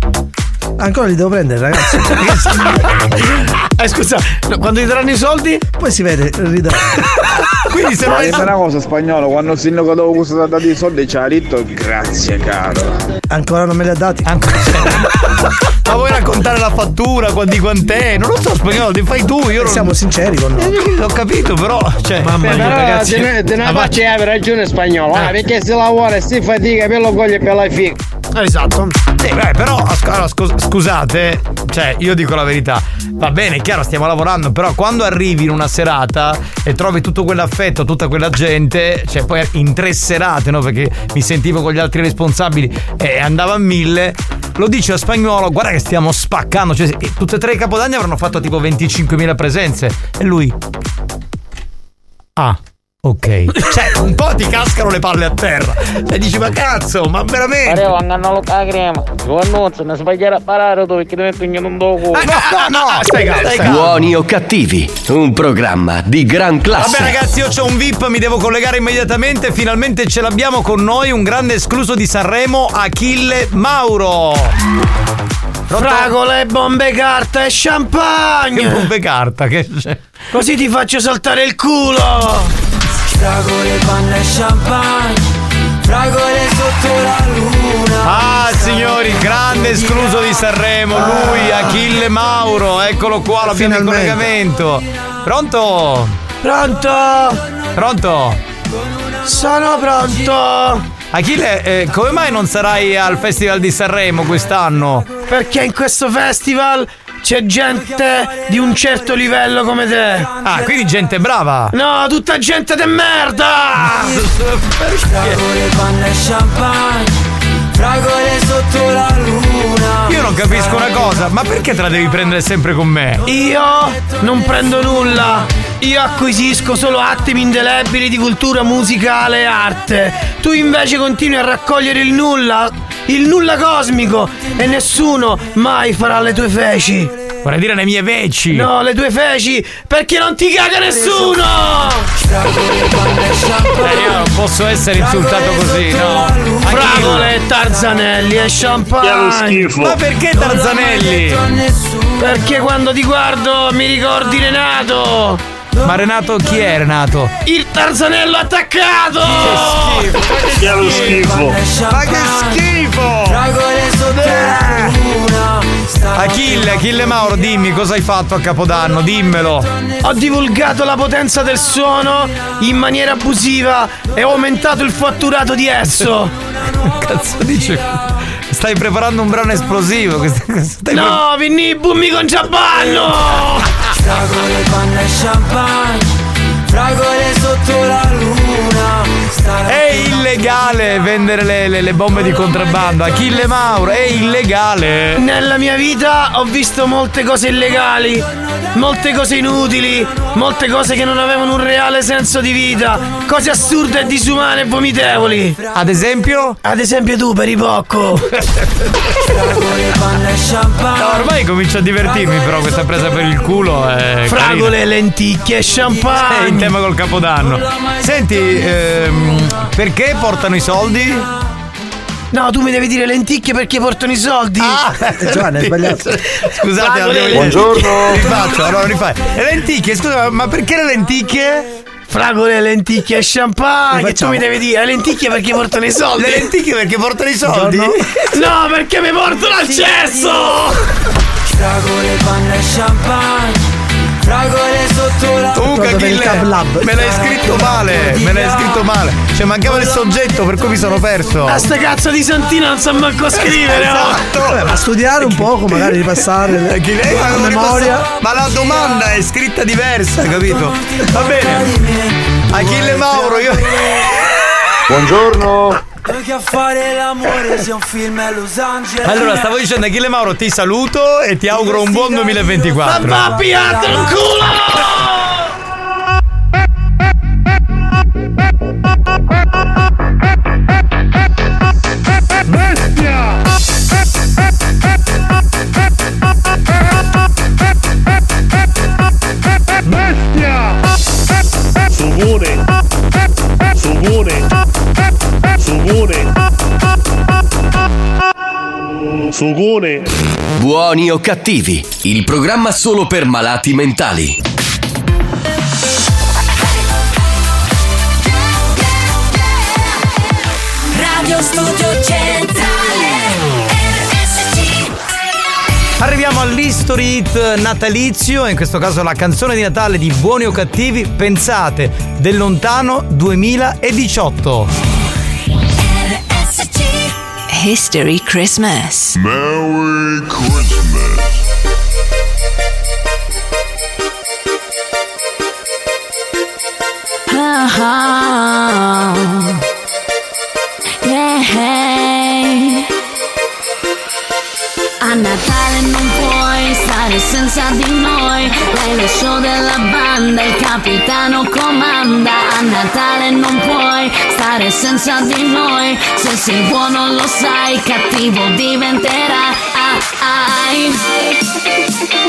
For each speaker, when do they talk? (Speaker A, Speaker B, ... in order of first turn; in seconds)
Speaker A: 0.8-2.3, 5.8-6.9, 13.3-15.0, 19.6-20.8, 93.4-94.3, 225.2-226.1, 233.9-234.4, 237.4-238.0, 245.6-247.1, 254.2-258.1
Speaker B: 2.2-2.5, 7.7-8.5, 14.2-15.0, 15.8-19.9, 20.6-23.3, 29.2-50.5, 52.4-57.9, 62.2-64.1, 66.7-74.5, 75.7-76.1, 78.5-80.0, 88.0-96.1, 97.8-98.4, 101.1-105.1, 110.4-111.7, 113.8-115.4, 120.0-123.2, 137.4-138.7, 143.8-147.3, 149.8-151.4, 155.8-157.3, 159.2-161.3, 161.9-163.4, 166.1-169.7, 176.8-181.2, 189.6-195.2, 205.7-206.6, 210.9-214.7, 216.2-221.3, 224.6-231.7, 236.2-237.9, 245.5-251.7, 253.3-256.0, 256.6-261.8, 262.5-264.1, 265.0-265.6, 269.0-273.4, 316.0-324.7
Speaker C: 3.8-5.6, 22.2-24.0, 28.3-29.0, 62.1-63.9, 75.7-78.9, 80.3-82.5, 96.4-97.4, 99.2-100.8, 105.2-110.3, 111.7-114.2, 123.2-137.1, 138.5-142.1, 146.7-149.7, 152.2-155.4, 157.4-160.1, 164.2-165.0, 170.0-176.3, 180.9-183.8, 195.2-205.6, 206.6-208.3, 214.3-216.7, 222.3-224.9, 226.8-228.2, 232.1-236.5, 238.3-240.8, 251.4-254.2, 272.6-275.5
Speaker D: 8.0-13.0
Speaker E: 22.4-28.0
Speaker F: 57.6-62.2
Speaker G: 63.6-67.2, 300.6-304.4
Speaker H: 83.6-84.6, 86.7-87.7, 186.8-187.8, 188.3-188.7
Speaker I: 149.0-149.9, 160.6-161.6, 282.5-283.3, 289.8-290.8, 291.9-292.6, 293.8-294.4, 295.6-296.3, 299.3-300.0
Speaker J: 310.9-314.5, 326.0-327.0, 337.3-339.6, 341.0-342.8, 345.0-361.2
Speaker K: 329.1-331.3